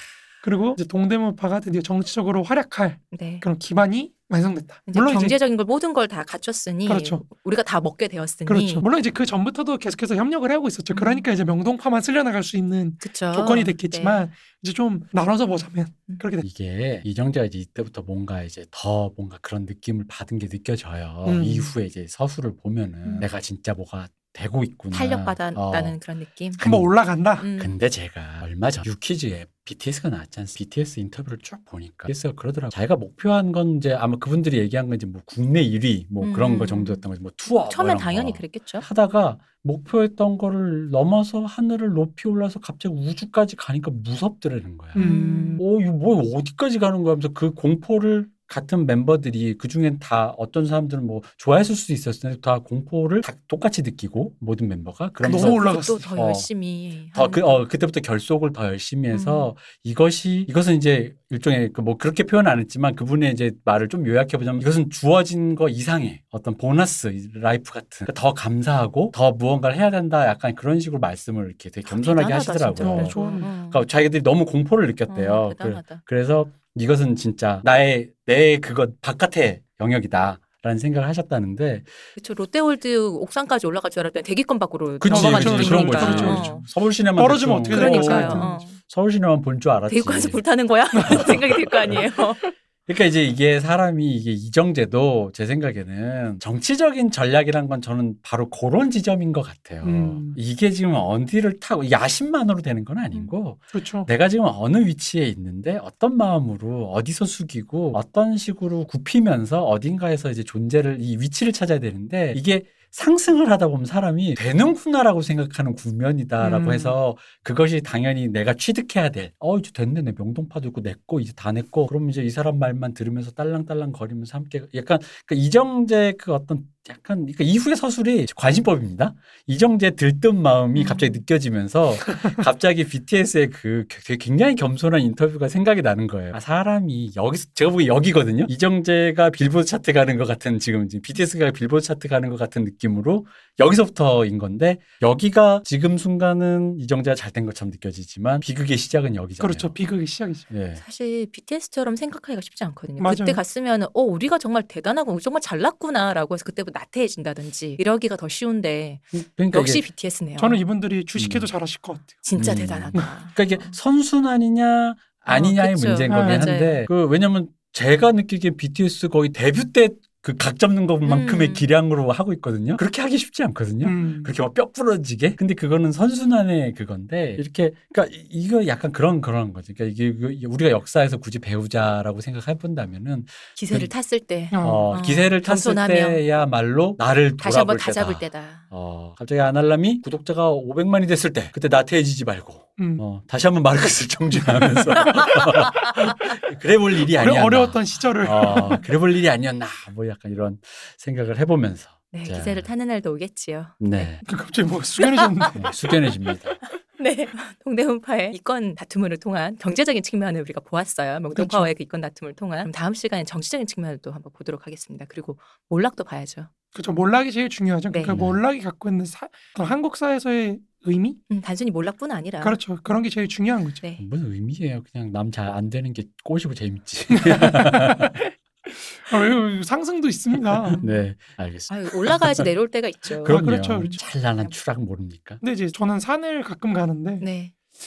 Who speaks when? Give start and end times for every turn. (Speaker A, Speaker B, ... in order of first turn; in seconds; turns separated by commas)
Speaker A: 0.4-5.3, Speaker B: 3.1-3.4, Speaker B: 4.9-8.8, Speaker A: 6.9-7.2, Speaker A: 8.5-16.4, Speaker B: 10.9-11.2, Speaker B: 13.0-14.2, Speaker C: 16.4-25.9, Speaker A: 21.2-21.7, Speaker B: 24.9-26.6, Speaker C: 26.6-26.9, Speaker A: 26.6-27.5, Speaker B: 27.4-27.7, Speaker C: 27.6-56.5, Speaker B: 36.2-37.0, Speaker B: 37.7-38.9, Speaker A: 44.9-45.6, Speaker B: 45.0-45.6, Speaker A: 55.2-56.0, Speaker B: 55.2-57.6, Speaker C: 57.1-81.9, Speaker B: 59.1-59.5, Speaker B: 71.8-73.8, Speaker A: 72.8-73.5, Speaker B: 75.1-76.0, Speaker B: 82.2-86.6, Speaker C: 85.0-90.4, Speaker A: 85.1-86.6, Speaker A: 87.2-88.6, Speaker B: 87.7-88.8, Speaker B: 89.9-92.4, Speaker A: 90.9-92.5, Speaker C: 91.1-92.0, Speaker C: 92.8-149.7, Speaker A: 99.8-100.4, Speaker A: 103.7-104.1, Speaker A: 116.4-117.0, Speaker B: 130.7-131.2, Speaker A: 149.4-150.4, Speaker C: 150.5-150.8, Speaker B: 150.8-160.6, Speaker A: 153.0-153.4, Speaker C: 159.1-159.8, Speaker A: 160.4-162.1, Speaker C: 161.2-161.4, Speaker B: 162.2-163.8, Speaker C: 162.4-183.9, Speaker B: 165.3-166.8, Speaker A: 166.1-166.5, Speaker B: 171.0-171.7, Speaker A: 173.8-174.3, Speaker B: 183.6-186.2, Speaker A: 184.5-184.9, Speaker C: 184.6-202.7, Speaker B: 187.4-188.6, Speaker A: 197.2-198.8, Speaker B: 202.1-204.2, Speaker C: 203.8-204.2, Speaker A: 204.2-205.7, Speaker B: 205.0-205.7, Speaker C: 205.5-206.6, Speaker B: 206.6-216.5, Speaker A: 211.3-211.7, Speaker A: 216.7-221.2, Speaker B: 217.9-218.2, Speaker C: 218.1-218.4, Speaker B: 221.3-222.6, Speaker A: 222.4-223.8, Speaker C: 224.0-228.1, Speaker A: 227.1-230.8, Speaker B: 230.7-231.0, Speaker C: 230.8-232.5, Speaker B: 231.7-233.4, Speaker C: 233.2-235.4, Speaker A: 233.2-234.0, Speaker A: 235.4-237.2, Speaker B: 237.2-237.5